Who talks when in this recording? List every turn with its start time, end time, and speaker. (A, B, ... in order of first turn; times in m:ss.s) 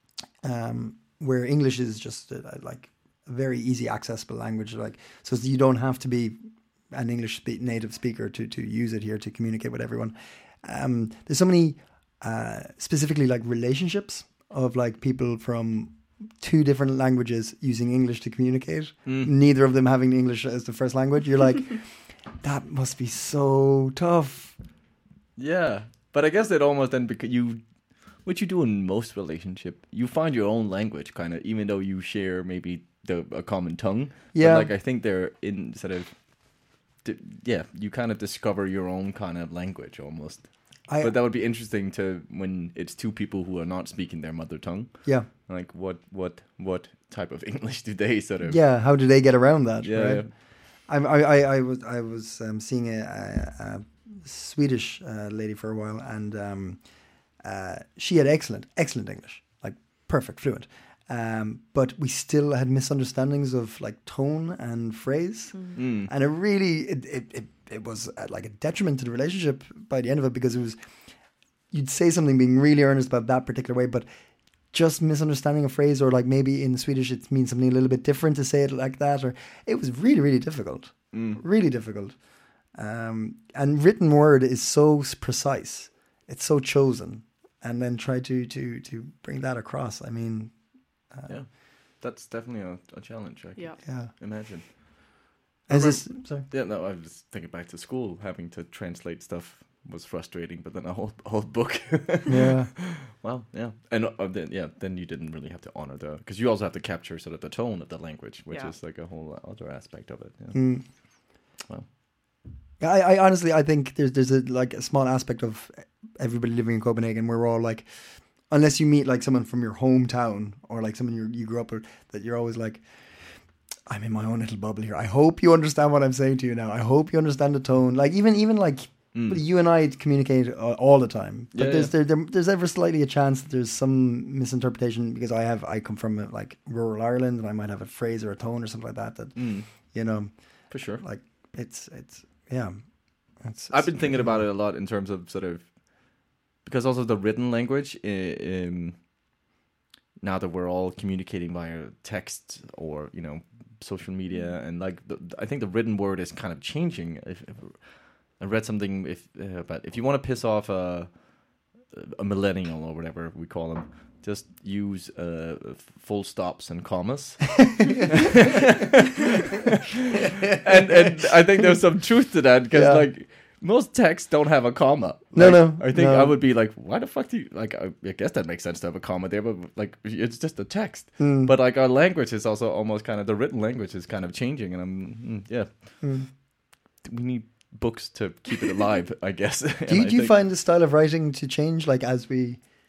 0:00.4-0:06.4 A
0:06.9-0:21.9 A
0:19.1-0:19.3 B
0:22.4-0:24.6 A
0:25.4-0:27.6 B
0:28.1-0:48.6 B
0:34.3-0:34.7 A
0:40.9-0:41.1 A
0:48.4-0:56.8 A
0:49.8-0:50.3 B
0:57.4-1:10.8 A
1:05.8-1:06.1 B
1:11.7-1:14.1 A
1:14.7-1:22.2 A
1:21.1-1:21.4 B
1:22.7-1:30.5 A
1:31.1-1:31.4 A
1:31.3-1:51.9 B
1:33.8-1:34.1 A
1:35.7-1:36.5 A
1:42.3-1:42.7 A
1:50.5-1:50.8 A
1:52.8-2:22.8 A
2:09.1-2:09.4 B
2:11.5-2:11.9 B
2:19.4-2:19.7 B
2:20.7-2:21.0 B
2:23.3-2:24.4 A
2:23.7-2:29.0 B
2:30.2-2:41.2 B
2:41.8-3:10.4 B
2:50.4-2:51.6 A
2:52.7-2:53.1 A
2:55.3-2:56.4 A
3:01.2-3:01.5 A
3:06.0-3:06.3 A
3:09.9-3:12.6 A